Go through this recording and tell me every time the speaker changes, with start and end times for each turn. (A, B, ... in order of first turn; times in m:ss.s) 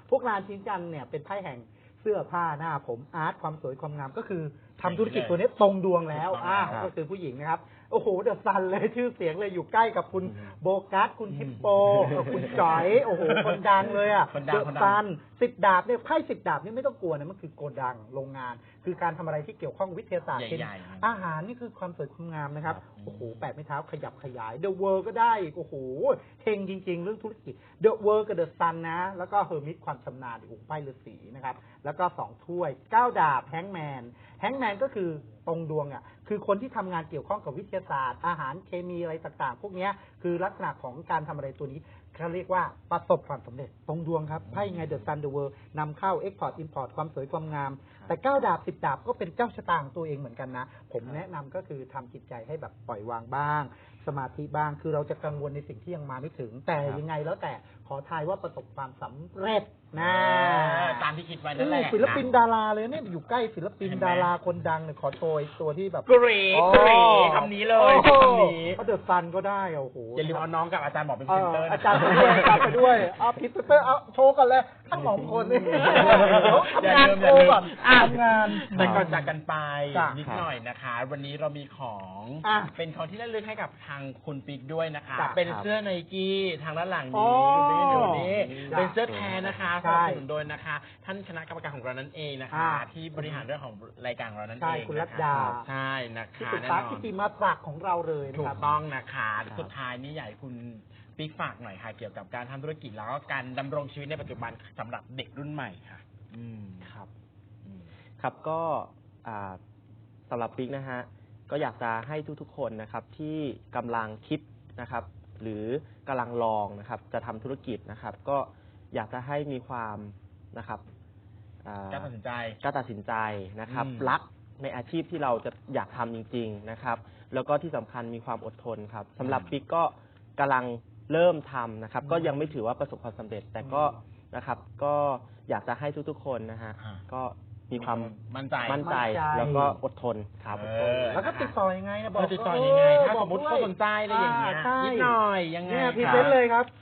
0:00.1-1:06.1 A
0:04.8-0:05.4 B
0:06.1-0:06.8 B
0:11.3-0:15.0 B
0:20.3-0:21.1 B
0:22.8-0:23.4 B
0:44.5-0:45.1 B
1:00.0-1:02.3 B
1:03.8-1:04.3 B
1:06.1-1:08.8 B
1:06.5-1:07.5 C
1:06.6-1:10.5 A
1:10.2-1:13.1 B
1:11.3-1:19.2 A
1:15.0-1:37.1 B
1:18.7-1:19.3 C
1:19.9-1:20.2 A
1:20.2-1:20.5 C
1:22.4-1:22.7 A
1:25.4-1:25.7 C
1:27.1-1:29.0 A
1:27.9-1:29.6 C
1:29.8-1:30.2 A
1:32.5-1:33.4 A
1:34.6-1:35.7 A
1:36.4-1:38.6 A
1:38.3-1:46.9 B
1:39.5-1:39.7 C
1:46.8-1:47.1 C
1:47.6-1:47.9 B
1:48.2-1:49.6 C
1:50.3-2:00.8 C
2:01.6-2:02.1 C
2:01.9-2:02.6 B
2:02.6-2:21.2 C
2:03.7-2:04.2 B
2:09.2-2:09.6 B
2:12.0-2:12.5 A
2:13.6-2:14.0 A
2:16.8-2:17.0 B
2:17.7-2:19.7 B
2:18.8-2:19.8 A
2:20.5-2:21.5 B
2:21.1-2:26.7 A
2:22.1-2:26.4 B
2:26.0-2:26.3 C